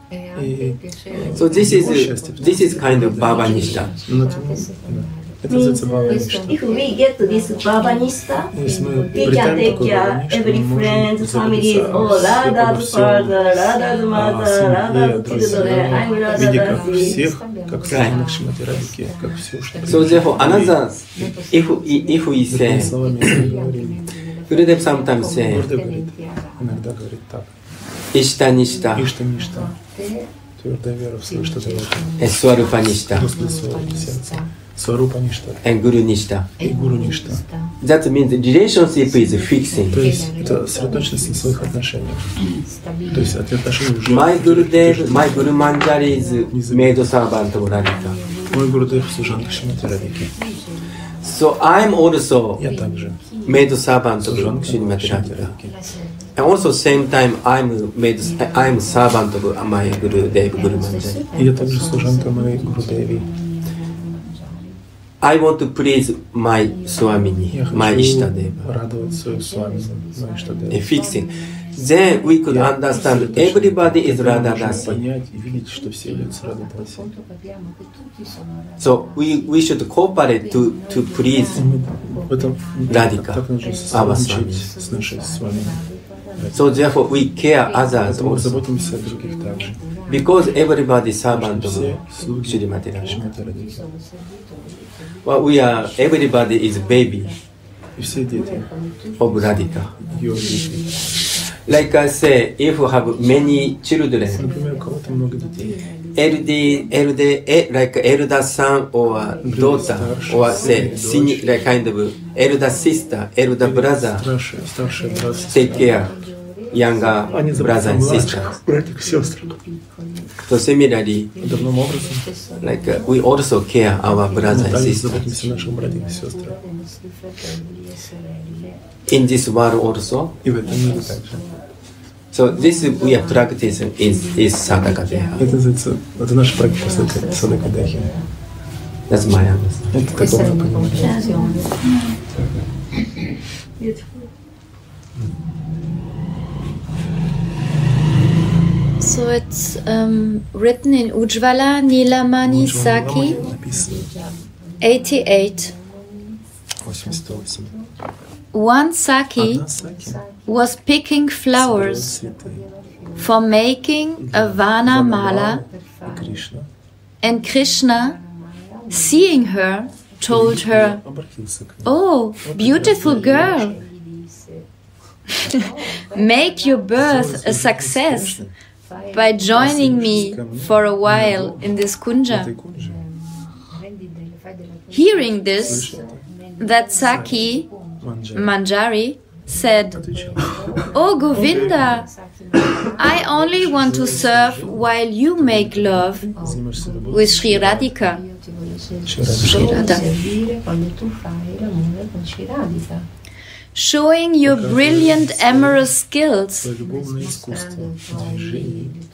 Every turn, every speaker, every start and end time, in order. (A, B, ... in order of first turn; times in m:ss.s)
0:00.4-0:06.6 A
0:01.4-0:03.9 B
0:05.5-0:17.3 C
0:08.5-0:13.4 A
0:14.1-0:21.3 A
0:17.9-0:18.2 B
0:19.8-0:23.4 B
0:22.5-0:24.1 A
0:24.5-0:25.7 B
0:25.3-0:27.5 A
0:28.1-0:29.1 B
0:29.0-0:29.8 A
0:30.6-0:32.2 A
0:32.2-0:33.3 B
0:33.1-0:35.6 A
0:35.6-0:36.5 B
0:36.6-0:37.4 A
0:37.8-0:40.0 B
0:39.9-0:42.3 A
0:43.1-0:47.1 A
0:44.1-0:48.2 B
0:48.5-0:50.4 A
0:51.2-0:52.6 B
0:52.6-0:53.2 A
0:53.5-0:55.5 B
0:54.2-0:55.8 A
0:56.4-1:01.2 B
1:01.4-1:03.3 A
1:05.2-1:08.6 B
1:07.5-1:10.9 A
1:10.7-1:15.0 B
1:12.5-1:17.1 A
1:18.8-1:21.6 B
1:21.5-1:25.8 A
1:22.9-1:24.6 B
1:26.4-1:27.1 A
1:26.5-1:28.6 B
1:27.9-1:29.8 A
1:30.1-1:33.2 B
1:31.3-1:33.9 A
1:35.2-1:37.4 B
1:38.0-1:38.7 A
1:39.2-1:39.9 B
1:39.9-1:40.9 A
1:41.7-1:44.4 B
1:44.4-1:45.8 A
1:46.2-1:54.2 B
1:49.4-1:51.5 A
1:53.6-1:56.1 A
1:55.5-1:56.2 B
1:56.7-1:58.5 B
1:57.3-1:59.6 A
2:00.4-2:01.3 B
2:01.4-2:02.3 A
2:02.6-2:05.3 B
2:04.5-2:06.6 A
2:09.1-2:10.3 B
2:10.4-2:11.5 A
2:12.3-2:15.4 B
2:15.4-2:18.2 A
2:19.1-2:19.9 B
2:19.9-2:21.2 A
2:21.0-2:22.1 C
2:23.8-2:24.3 C
2:29.0-2:33.4 D
2:32.4-2:34.1 A
2:34.8-2:35.7 D
2:36.8-2:37.8 A
2:38.5-2:39.6 D
2:39.4-2:40.2 A
2:40.5-2:42.2 D
2:41.6-2:42.7 A
2:43.2-2:45.6 D
2:44.2-2:46.7 A
2:47.2-2:48.2 D
2:48.9-2:51.0 D
2:50.2-2:53.8 A
2:51.8-2:53.8 D
2:56.1-2:58.4 D
2:56.9-2:58.5 A
2:59.1-3:02.5 D
2:59.5-3:01.7 A
3:02.3-3:03.0 A
3:04.9-3:05.9 D
3:05.6-3:06.2 A
3:06.6-3:07.7 D
3:07.0-3:08.5 A
3:08.4-3:10.0 D
3:09.9-3:12.0 A
3:10.9-3:12.1 D
3:13.0-3:16.3 D
3:13.0-3:17.9 A
3:17.1-3:18.2 D
3:19.0-3:19.9 A
3:19.4-3:20.1 D
3:23.8-3:26.7 D
3:24.4-3:25.8 A
3:26.6-3:29.0 A